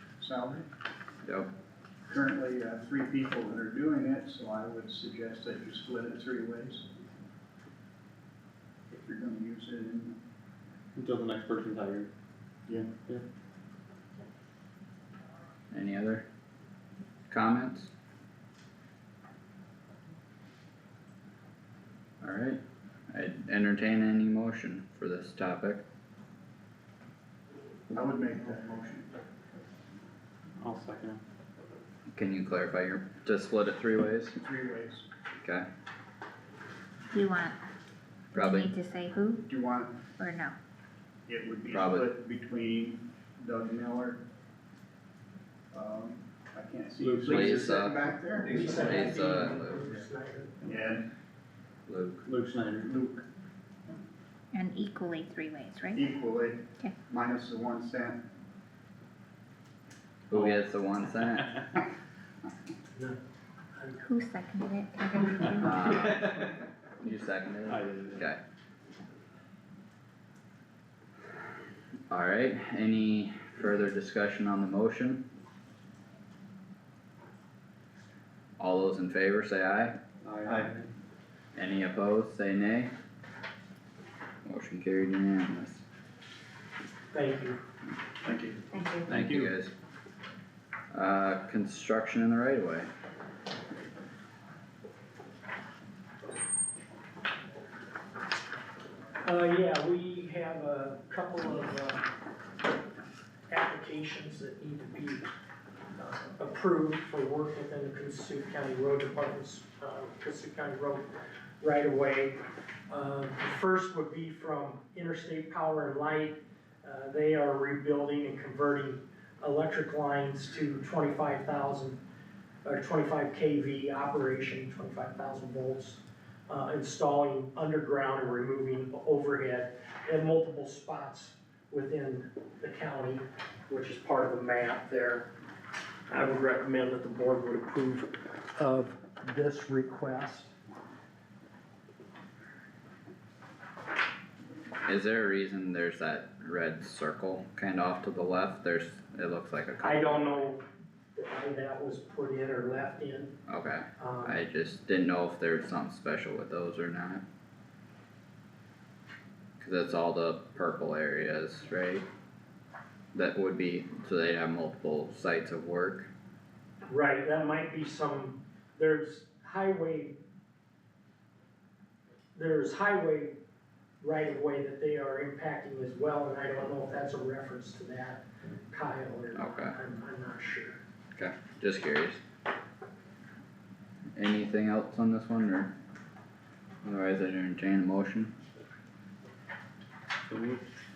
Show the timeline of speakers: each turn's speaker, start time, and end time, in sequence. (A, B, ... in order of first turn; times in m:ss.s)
0:00.2-0:00.7 A
0:02.1-0:06.8 A
0:08.9-0:10.2 A
0:11.0-0:12.1 B
0:12.7-0:12.9 A
0:15.7-0:16.2 C
0:17.3-0:17.9 C
0:22.2-0:25.8 C
0:27.9-0:29.1 A
0:30.6-0:31.2 B
0:32.1-0:34.4 C
0:34.4-0:35.1 A
0:37.1-0:37.6 D
0:38.3-0:39.4 D
0:38.3-0:38.7 C
0:39.5-0:40.0 A
0:40.2-0:40.6 D
0:41.3-0:44.2 A
0:41.7-0:42.1 C
0:45.7-0:48.9 A
0:47.0-0:47.7 B
0:47.3-0:48.0 C
0:48.4-0:49.4 B
0:48.4-0:50.6 E
0:48.8-0:49.9 C
0:50.6-0:51.1 A
0:51.9-0:52.3 C
0:52.3-0:52.9 B
0:52.8-0:53.2 A
0:54.5-0:56.0 D
0:56.0-0:58.2 A
1:00.3-1:01.6 C
1:03.8-1:04.0 E
1:04.0-1:05.7 D
1:05.6-1:08.4 C
1:07.7-1:08.2 B
1:12.1-1:15.2 C
1:18.6-1:20.0 C
1:20.4-1:20.8 B
1:21.6-1:22.9 C
1:24.4-1:25.8 C
1:27.1-1:27.6 E
1:28.3-1:28.6 B
1:28.7-1:29.2 D
1:29.1-1:29.7 C
1:29.2-1:29.5 B
1:30.9-1:32.9 C
1:39.2-1:42.1 E
1:43.5-1:45.3 E
1:46.0-1:51.1 E
1:51.6-2:02.0 E
2:02.6-2:15.3 E
2:16.1-2:20.5 E
2:24.8-2:30.4 C
2:29.8-2:30.6 E
2:31.2-2:33.4 E
2:33.5-2:37.2 C
2:34.0-2:34.4 E
2:39.6-2:42.1 C
2:43.1-2:46.1 C
2:46.9-2:50.2 E
2:52.4-2:53.4 E
2:54.0-3:00.8 E
2:59.3-2:59.8 C
3:01.2-3:02.2 C
3:04.2-3:05.7 C
3:06.8-3:08.3 C
3:10.3-3:10.6 B